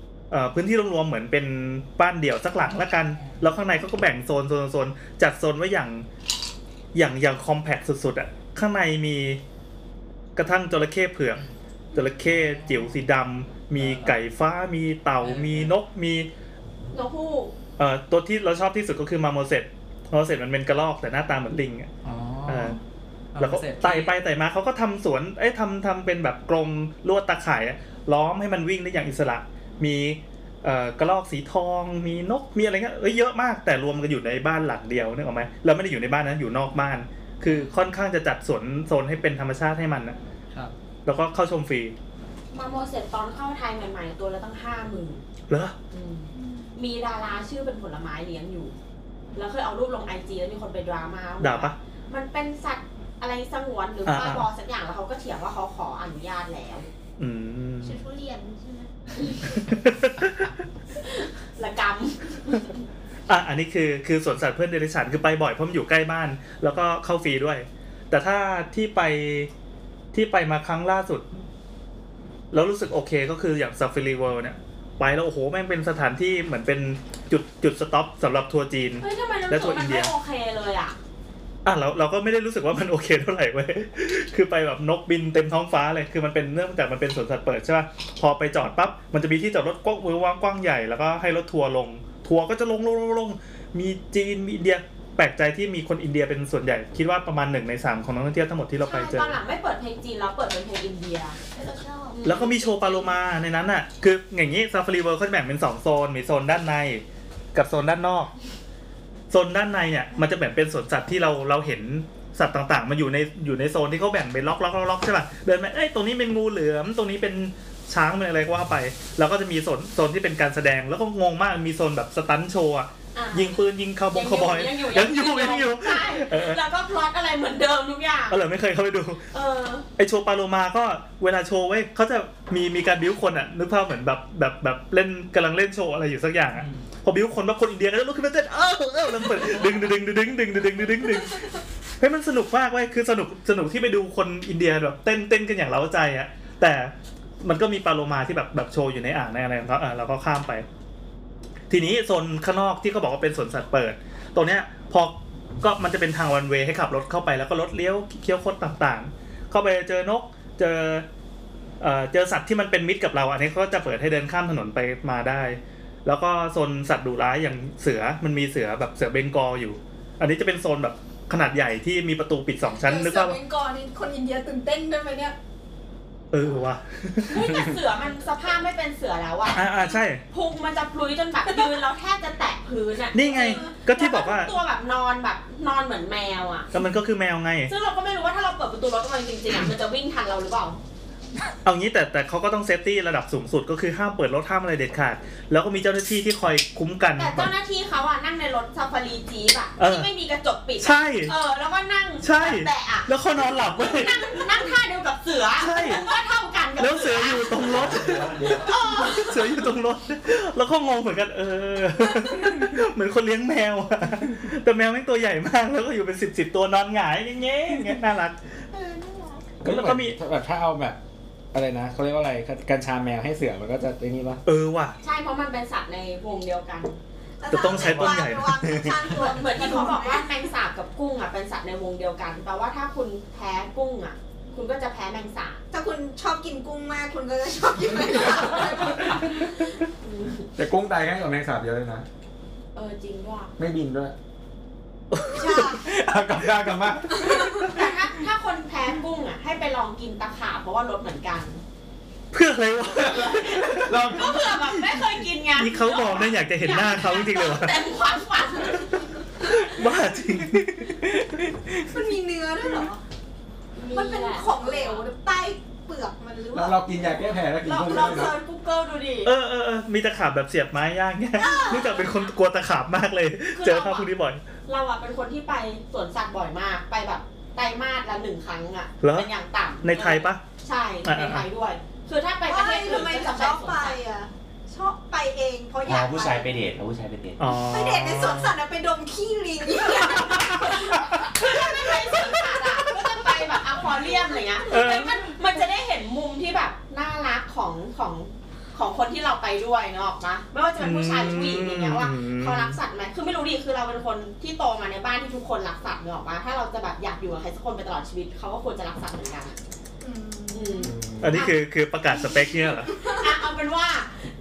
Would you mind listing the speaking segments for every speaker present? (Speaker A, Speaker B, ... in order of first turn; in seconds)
Speaker A: 0.3-6.0, 6.9-9.4, 10.3-11.4, 11.9-16.3, 17.8-21.9, 22.4-22.8, 23.4-40.2, 41.0-41.9, 45.5-45.7, 51.4-51.8, 54.0-54.5, 57.2-58.0, 59.4-60.5, 63.3-69.5, 70.1-71.3, 72.5-80.1, 81.6-99.3, 102.2-108.3, 109.3-126.6, 128.3-129.2, 130.0-150.7, 151.7-161.1, 161.8-173.4, 176.3-177.7, 179.5-180.2, 183.1-184.5, 186.7-187.7, 191.6-197.5, 199.8-200.1, 200.8-201.3, 202.2-204.5, 205.6-206.0, 206.8-218.4, 219.6-220.2, 224.4-224.9, 227.5-228.9, 245.1-245.9, 252.3-257.8, 259.4-261.7, 269.2-274.4, 279.0-279.3, 279.8-280.4, 281.0-281.4, 287.4-288.6, 290.9-291.6, 294.7-295.2, 300.8-302.8, 311.2-312.9
Speaker B: 12.2-13.0, 13.7-14.2, 15.2-15.8, 22.0-22.8, 23.3-24.1, 136.5-136.8, 139.3-139.9
Speaker C: 16.9-17.5, 42.5-45.2, 45.9-48.7, 49.3-56.9, 59.2-59.5, 61.0-62.8, 79.0-81.0, 98.8-101.4, 102.1-103.1, 123.1-123.6, 124.1-128.4, 129.3-129.8, 177.2-186.7, 187.7-190.8, 197.2-207.8, 208.4-209.6, 225.0-227.0, 229.1-235.6, 240.0-240.5, 242.7-243.5, 247.6-251.6, 252.9-259.0, 263.7-265.0, 267.6-269.3, 271.5-272.0, 273.5-274.1, 274.7-284.0, 289.7-309.6, 310.5-311.6, 313.0-314.2
Speaker D: 57.8-58.9, 101.5-102.5, 172.8-175.3, 183.3-183.7, 218.7-219.5, 227.4-230.3, 235.7-239.6, 245.3-245.8, 247.1-247.8, 261.8-263.0, 263.9-267.0, 271.4-272.1, 282.5-286.5, 287.5-291.1, 294.0-294.8, 310.0-311.0
Speaker E: 207.8-208.6, 285.8-287.4
Speaker F: 219.6-221.0, 221.5-224.4, 240.6-242.0, 243.6-244.1, 245.8-247.6, 266.5-268.3, 310.8-311.5